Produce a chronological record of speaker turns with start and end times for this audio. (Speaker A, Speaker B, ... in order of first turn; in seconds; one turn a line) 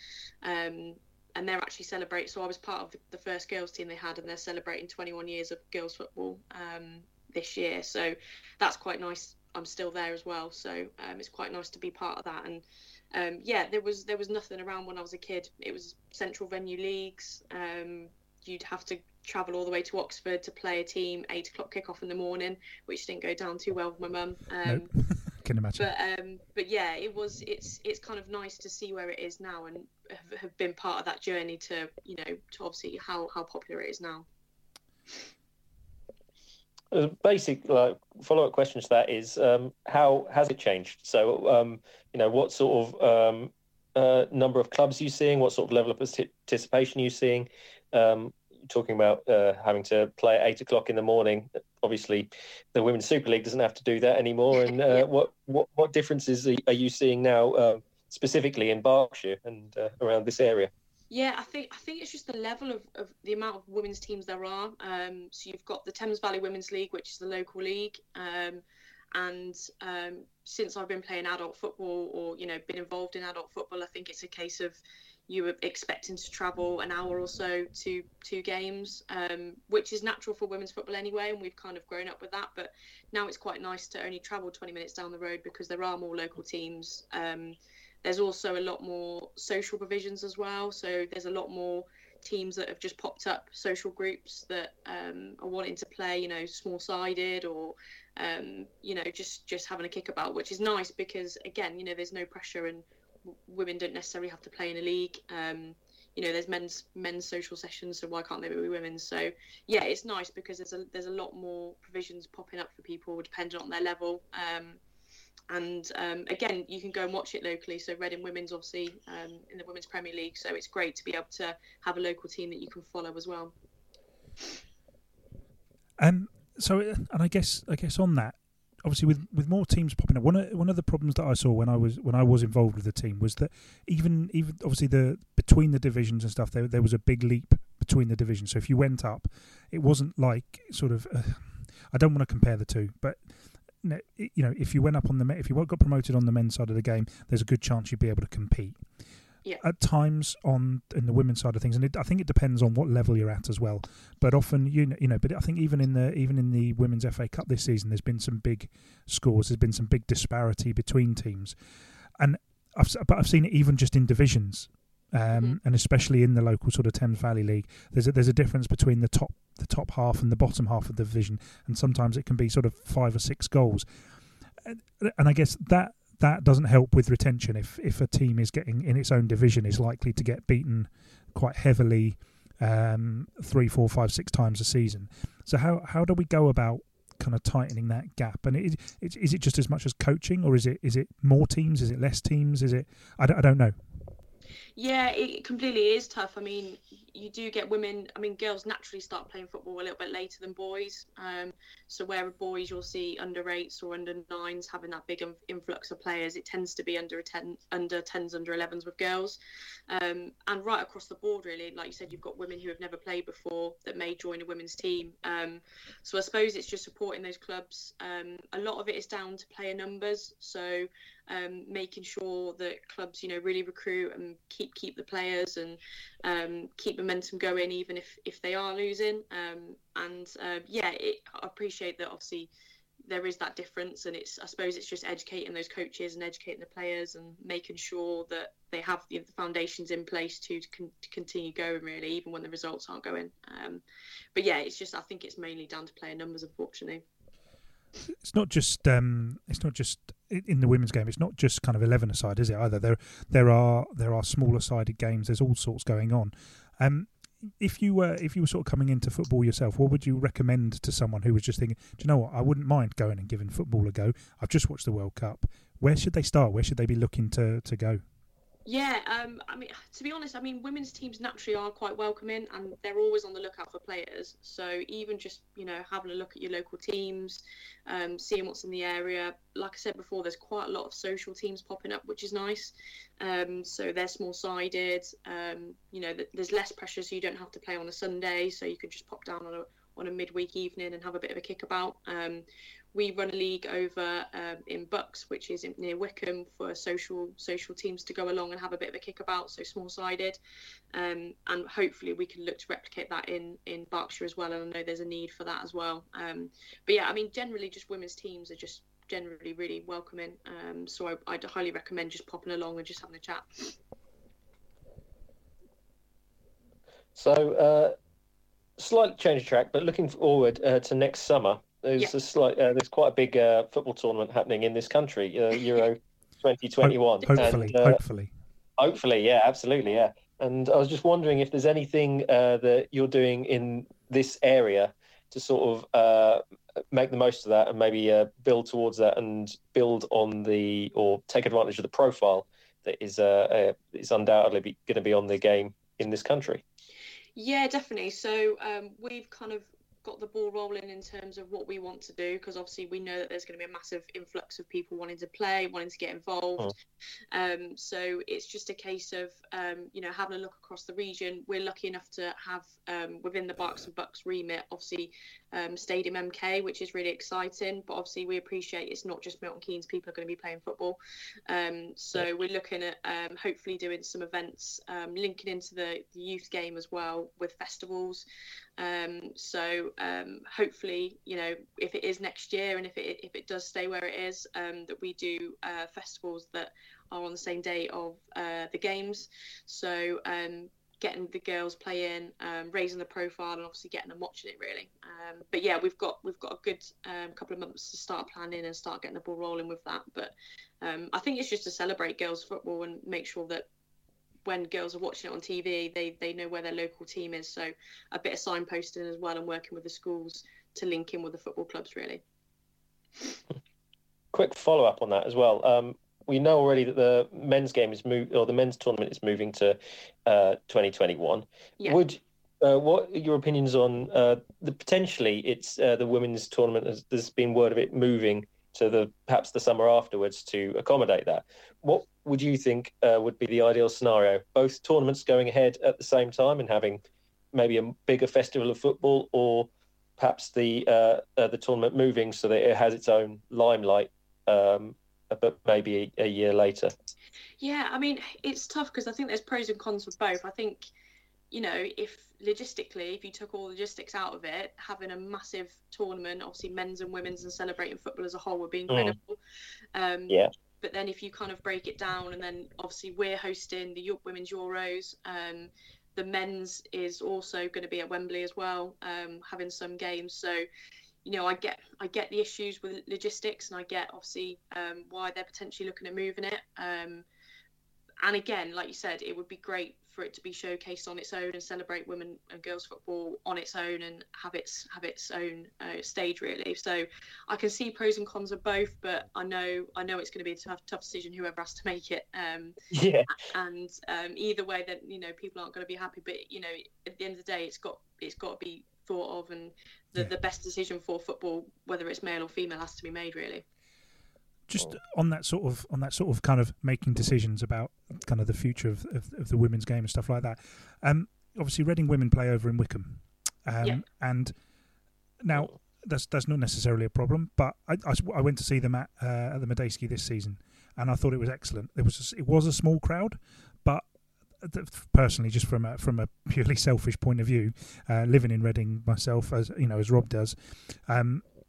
Speaker A: 0.4-24.9
Speaker B: 24.6-25.9
Speaker A: 25.8-34.2
Speaker C: 36.9-60.7
Speaker A: 61.1-68.6
Speaker A: 69.1-114.8
Speaker A: 115.5-123.5
Speaker B: 126.0-143.2
Speaker B: 143.8-148.8
Speaker B: 149.6-161.6
Speaker B: 162.2-173.9
Speaker A: 165.3-165.6
Speaker B: 174.6-194.0
Speaker A: 194.8-209.4
Speaker A: 209.9-232.5
Speaker A: 233.0-243.8
Speaker A: 244.3-247.0
Speaker B: 248.2-268.0
Speaker A: 268.6-300.4
Speaker A: 300.9-313.8
Speaker C: 317.1-317.9
Speaker C: 318.8-328.0
Speaker B: 326.8-328.3
Speaker C: 328.8-346.6
Speaker A: 347.3-356.7
Speaker A: 357.3-371.0
Speaker A: 371.5-378.2
Speaker A: 378.8-403.6
Speaker A: 404.4-412.2
Speaker C: 414.3-437.0
Speaker C: 437.5-446.9
Speaker A: 447.6-450.9
Speaker A: 451.5-459.4
Speaker C: 458.9-459.1
Speaker A: 459.9-470.6
Speaker A: 471.2-477.2
Speaker A: 478.2-492.7
Speaker C: 492.9-493.3
Speaker A: 493.3-503.6
Speaker B: 504.7-514.5
Speaker B: 515.4-524.0
Speaker B: 524.6-531.4